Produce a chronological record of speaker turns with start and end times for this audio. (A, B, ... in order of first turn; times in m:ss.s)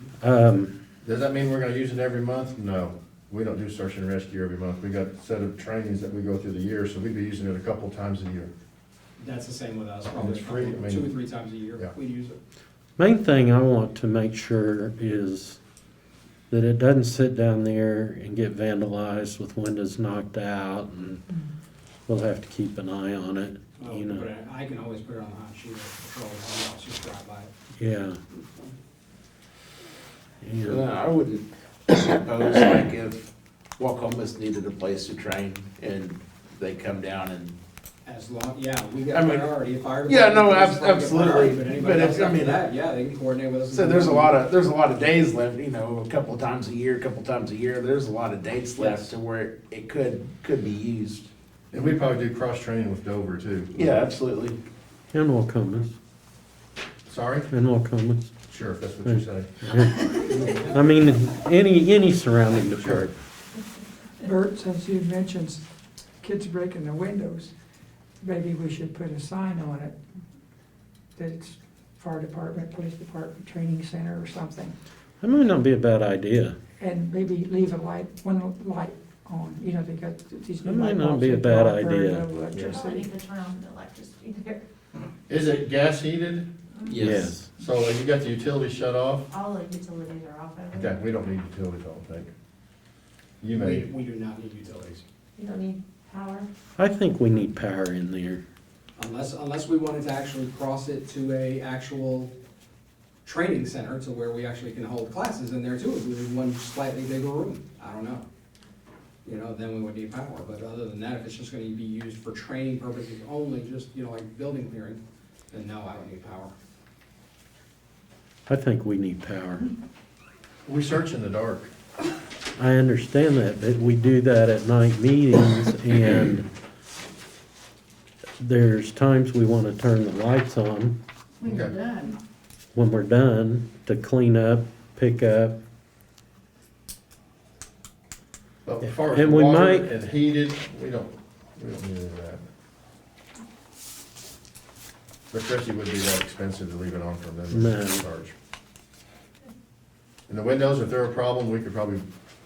0:00.2-0:00.8 A
0:01.0-0:08.5 B
0:09.2-0:12.4 C
0:10.1-0:11.1 B
0:13.0-0:15.6 A
0:16.5-0:21.2 A
0:22.1-0:24.3 A
0:23.8-0:27.5 C
0:27.8-0:28.2 A
0:30.4-0:30.8 A
0:30.6-0:37.6 D
0:38.0-0:44.4 C
0:39.1-0:39.5 D
0:40.0-0:42.6 D
0:43.7-0:51.3 D
0:48.7-0:49.2 C
0:51.7-0:54.0 B
0:53.7-0:54.6 D
0:55.1-0:55.9 A
0:57.1-0:57.5 B
0:57.5-0:58.3 A
0:58.5-0:59.5 B
0:59.0-1:03.1 A
1:00.2-1:00.8 C
1:02.8-1:03.1 B
1:04.2-1:05.6 E
1:06.2-1:07.5 E
1:08.2-1:09.9 E
1:11.2-1:14.7 E
1:15.2-1:16.6 A
1:16.8-1:23.0 E
1:20.6-1:22.3 A
1:22.5-1:24.6 F
1:25.3-1:26.4 B
1:26.9-1:27.4 D
1:27.0-1:27.5 A
1:27.6-1:29.3 B
1:29.3-1:30.9 F
1:30.7-1:32.3 B
1:33.4-1:33.9 B
1:33.6-1:35.0 C
1:35.4-1:36.5 F
1:36.8-1:38.4 A
1:39.0-1:42.3 C
1:43.2-1:48.2 C
1:49.2-1:56.5 C
1:58.5-1:59.7 A
2:00.6-2:01.7 B
2:02.6-2:06.5 A
2:08.4-2:11.0 A
2:11.4-2:12.2 F
2:11.4-2:11.8 B
2:12.7-2:15.6 A
2:18.6-2:22.4 B
2:18.8-2:19.9 A
2:25.3-2:28.3 B
2:27.5-2:28.0 A
2:30.3-2:32.0 B